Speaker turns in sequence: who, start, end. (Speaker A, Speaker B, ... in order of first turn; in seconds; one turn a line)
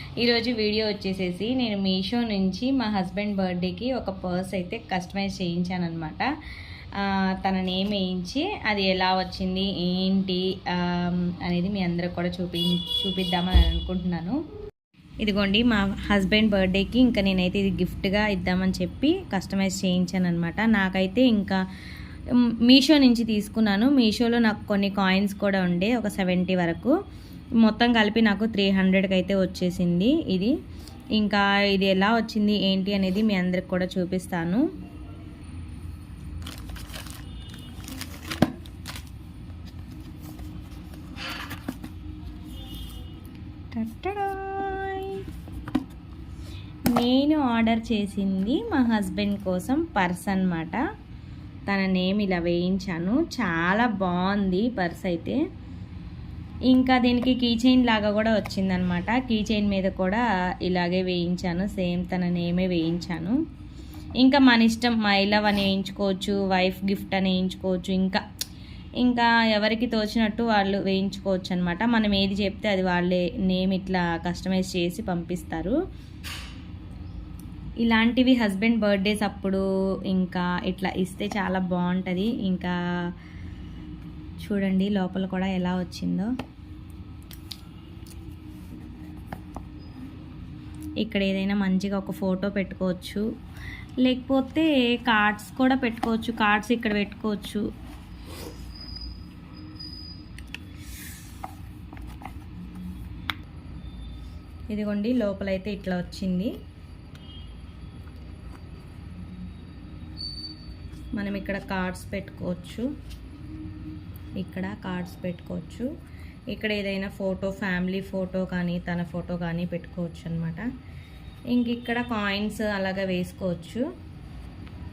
Speaker A: 0.2-6.2
Speaker A: 7.0-14.4
Speaker A: 15.2-21.6
Speaker A: 22.7-26.9
Speaker A: 27.6-30.5
Speaker A: 31.2-34.6
Speaker A: 43.7-45.2
Speaker A: 46.9-50.8
Speaker A: 51.7-55.4
Speaker A: 56.7-63.4
Speaker A: 64.2-68.2
Speaker A: 69.0-75.7
Speaker A: 77.8-82.7
Speaker A: 84.4-86.3
Speaker A: 91.0-93.2
Speaker A: 94.0-97.6
Speaker A: 104.7-106.5
Speaker A: 111.2-112.9
Speaker A: 114.4-115.9
Speaker A: 116.5-120.6
Speaker A: 121.5-123.8